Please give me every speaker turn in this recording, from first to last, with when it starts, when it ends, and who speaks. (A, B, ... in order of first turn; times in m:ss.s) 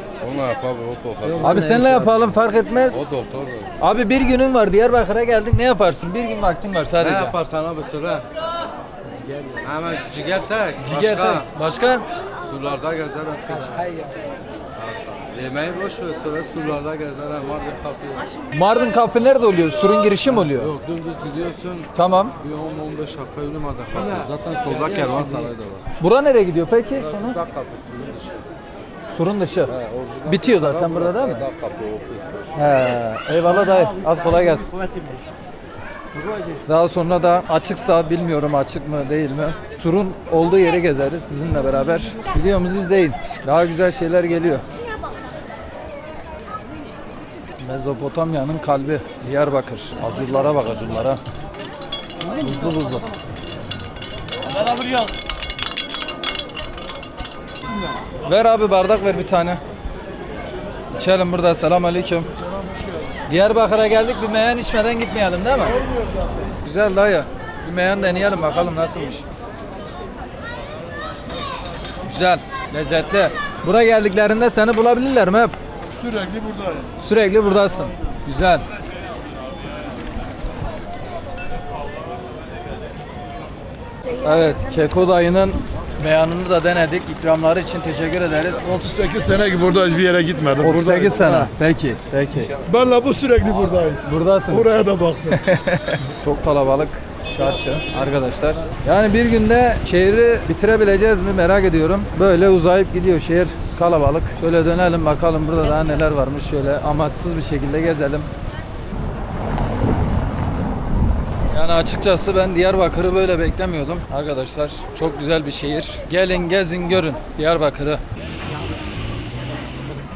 0:00.2-0:01.8 A
0:01.4-0:03.1 B
0:02.9-0:03.7 A
0:03.8-0:07.4 B
0:07.0-0:08.3 A
0:09.3-0:11.5 A
0:10.8-0:12.0 B
0:12.4-0:13.8 A
0:14.8-0:18.3 A
0:18.5-0:20.8 B
0:20.3-0:25.8 A
0:21.9-0:22.4 B
0:26.0-0:27.4 B
0:27.0-0:28.5 A
0:29.1-0:31.4 B
0:29.7-0:32.5 A
0:32.6-0:34.7 B
0:36.7-0:44.6 B
0:47.6-0:51.2 B
0:52.4-0:53.1 B
0:58.2-0:59.6 B
1:00.9-1:02.3 B
1:03.3-1:05.8 B
1:06.6-1:09.2 B
1:12.0-1:15.5 B
1:16.0-1:16.9 C
1:17.0-1:18.6 B
1:24.2-1:28.7 B
1:28.6-1:31.5 C
1:30.6-1:32.6 B
1:32.6-1:35.4 C
1:34.0-1:48.3 B
1:51.5-1:58.0 B